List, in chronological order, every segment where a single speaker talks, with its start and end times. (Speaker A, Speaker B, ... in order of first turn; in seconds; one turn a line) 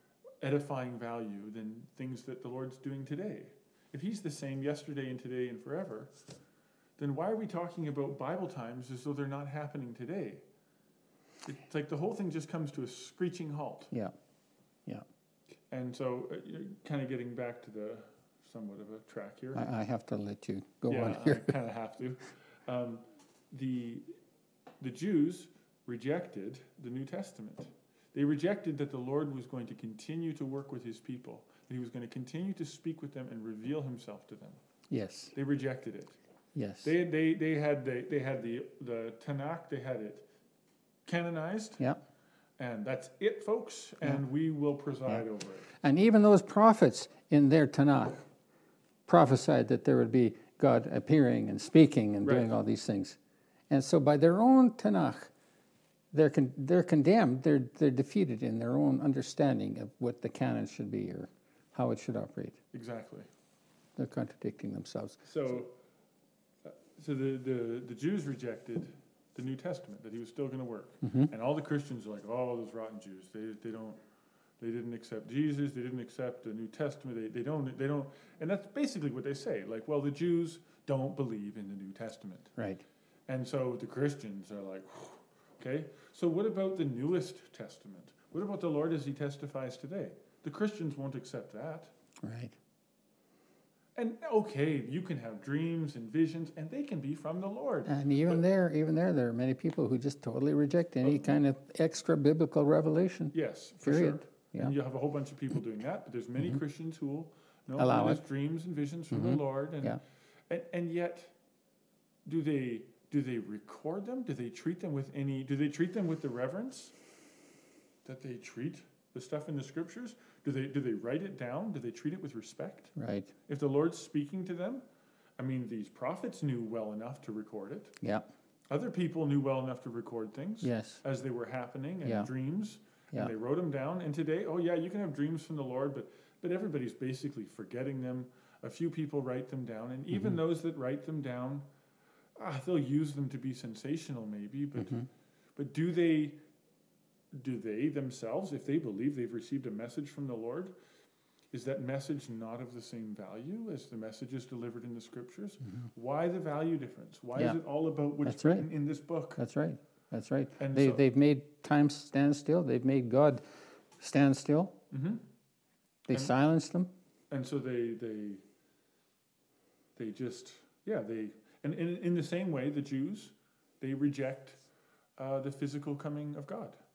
Speaker A: 0.4-6.1
Speaker A: 7.0-10.4
Speaker A: 11.4-13.9
Speaker A: 15.7-19.7
Speaker B: 19.5-21.5
Speaker A: 20.9-24.1
Speaker A: 24.8-34.6
Speaker B: 34.9-35.3
Speaker A: 35.3-36.2
Speaker B: 36.5-36.9
Speaker A: 36.8-40.2
Speaker A: 41.0-41.8
Speaker A: 42.6-45.7
Speaker B: 45.8-48.2
Speaker B: 49.1-53.2
Speaker A: 52.2-52.5
Speaker B: 53.7-55.3
Speaker B: 56.1-62.6
Speaker A: 62.7-63.3
Speaker B: 64.0-65.5
Speaker A: 65.2-65.7
Speaker A: 66.6-74.0
Speaker B: 71.0-71.3
Speaker A: 74.6-82.5
Speaker B: 82.6-82.8
Speaker A: 83.3-91.9
Speaker B: 92.2-92.5
Speaker A: 94.0-98.4
Speaker B: 97.8-104.7
Speaker A: 103.3-111.3
Speaker B: 107.8-108.2
Speaker B: 109.1-110.0
Speaker A: 112.2-116.9
Speaker A: 118.0-122.9
Speaker B: 123.0-123.3
Speaker A: 123.5-124.8
Speaker A: 125.4-128.0
Speaker B: 128.0-128.3
Speaker A: 128.7-141.6
Speaker B: 130.6-131.0
Speaker A: 142.3-145.0
Speaker B: 144.8-145.1
Speaker A: 145.6-146.4
Speaker A: 147.3-150.7
Speaker A: 151.5-159.4
Speaker B: 158.2-158.7
Speaker B: 159.4-163.4
Speaker A: 160.6-161.0
Speaker B: 164.0-164.8
Speaker A: 164.9-165.2
Speaker B: 166.1-166.9
Speaker A: 167.3-168.4
Speaker A: 169.9-174.6
Speaker A: 175.2-176.8